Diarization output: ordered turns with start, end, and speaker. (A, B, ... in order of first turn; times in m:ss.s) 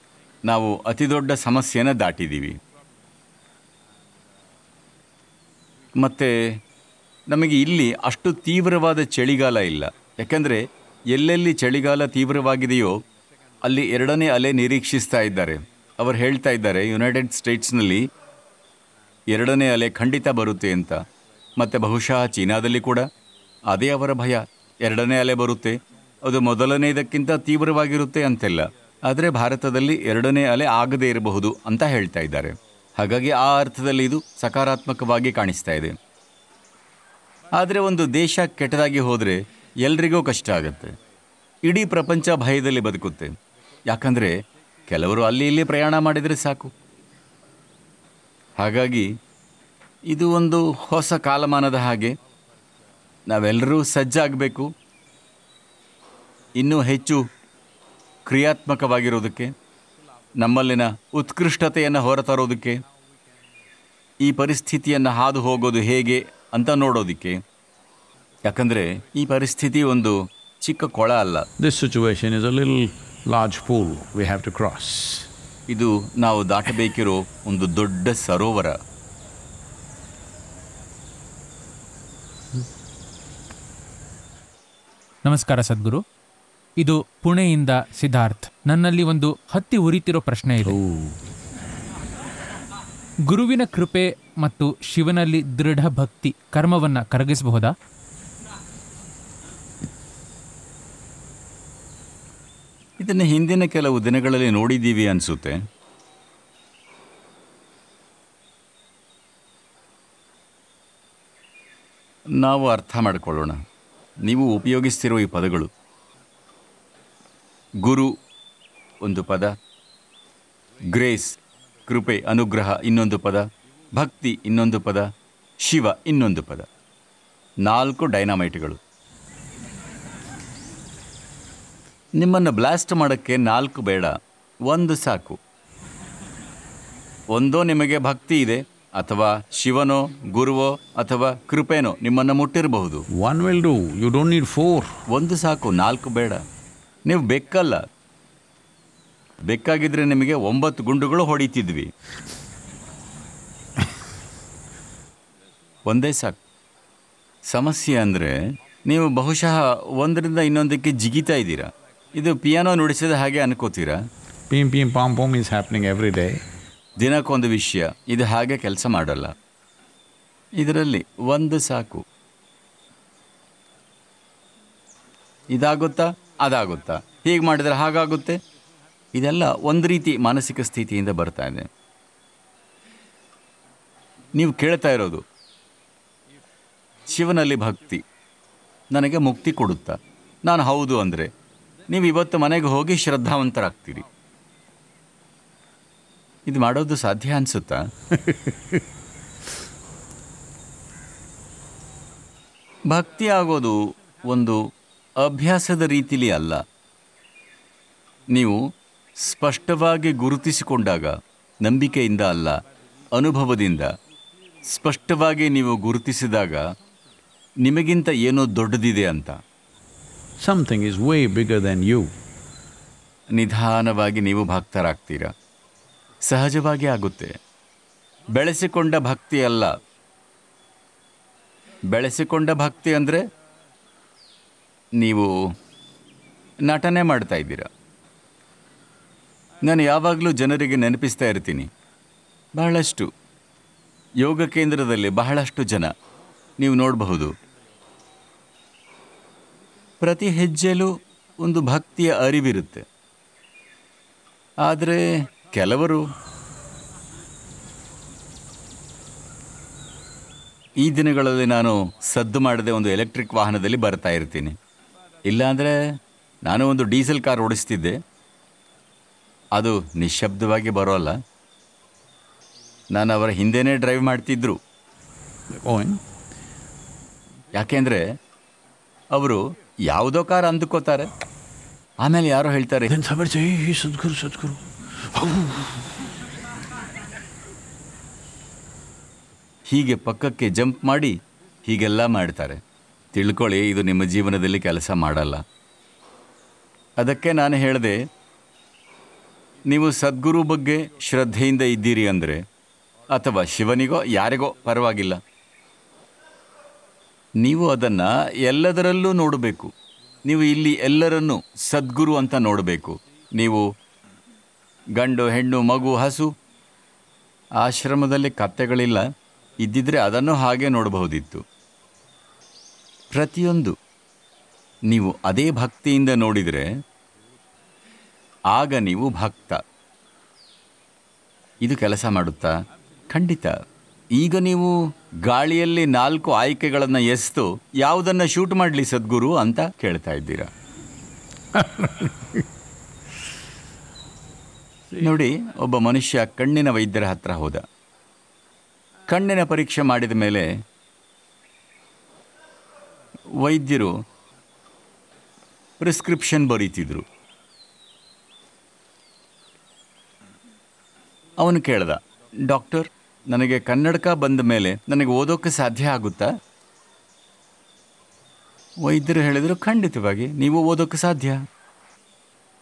0:00.4-0:02.6 A
0:05.9-0:06.6 A
0:07.3-0:13.0 A
0:13.6-0:18.1 A
0:19.3-0:23.1 A
0:23.6-0:36.0 A
0:37.5-0:41.0 A
0:41.6-0:46.7 A
0:48.6-0:49.1 A
0:50.1-0:52.2 A
0:53.2-0:54.7 A
0:56.5-0:57.3 A
0:58.2-0:59.5 A
1:00.3-1:02.8 A
1:04.2-1:07.4 A
1:08.4-1:11.4 A
1:11.6-1:15.3 B
1:15.7-1:18.8 A
1:25.2-1:26.0 C
1:26.8-1:30.8 C
1:30.6-1:31.2 B
1:33.3-1:37.7 C
1:43.0-1:45.6 A
1:52.3-1:53.6 A
1:54.2-1:55.7 A
1:57.8-1:58.2 A
1:59.0-1:59.5 A
2:00.8-2:06.7 A
2:07.6-2:08.8 A
2:12.2-2:15.4 A
2:17.3-2:23.1 A
2:23.1-2:25.0 B
2:25.1-2:26.4 A
2:27.0-2:27.8 A
2:29.4-2:31.9 A
2:35.8-2:36.4 A
2:37.5-2:44.0 A
2:44.5-2:46.4 B
2:47.0-2:49.3 A
2:50.6-2:52.0 A
2:55.5-2:58.4 A
2:59.1-3:01.7 A
3:04.3-3:05.2 A
3:07.1-3:08.0 A
3:08.9-3:11.3 A
3:11.9-3:14.1 A
3:16.4-3:17.9 A
3:18.2-3:18.8 B
3:22.9-3:24.6 A
3:25.2-3:26.6 A
3:28.3-3:28.6 A
3:29.2-3:34.0 A
3:34.6-3:36.6 A
3:37.6-3:39.4 A
3:40.4-3:42.1 B
3:43.3-3:45.3 A
3:46.2-3:47.4 A
3:48.3-3:49.8 A
3:51.8-3:53.3 A
3:55.0-3:55.3 A
3:56.6-3:57.7 A
3:59.6-4:01.7 A
4:02.5-4:03.1 A
4:04.2-4:05.9 A
4:06.6-4:07.4 A
4:10.0-4:12.8 A
4:14.6-4:16.0 A
4:20.8-4:24.6 A
4:25.2-4:25.8 A
4:26.4-4:28.0 A
4:29.5-4:31.2 A
4:32.9-4:34.6 A
4:35.5-4:36.0 B
4:37.5-4:38.0 A
4:39.1-4:41.1 A
4:42.0-4:42.9 A
4:42.9-4:45.9 B
4:49.7-4:52.6 A
4:53.1-4:55.4 A
4:57.0-4:58.0 A
4:59.6-5:02.4 A
5:03.1-5:05.2 A
5:07.4-5:09.7 A
5:10.2-5:13.7 A
5:15.0-5:16.3 A
5:17.6-5:19.0 A
5:19.6-5:21.4 A
5:23.1-5:23.8 A
5:24.9-5:26.7 A
5:28.5-5:29.6 A
5:31.6-5:32.6 A
5:33.1-5:33.6 A
5:34.1-5:40.5 A
5:41.5-5:42.4 B
5:45.0-5:47.6 A
5:49.1-5:50.5 A
5:53.4-5:54.0 A
5:55.8-5:57.0 A
6:01.4-6:06.3 A
6:08.8-6:11.4 A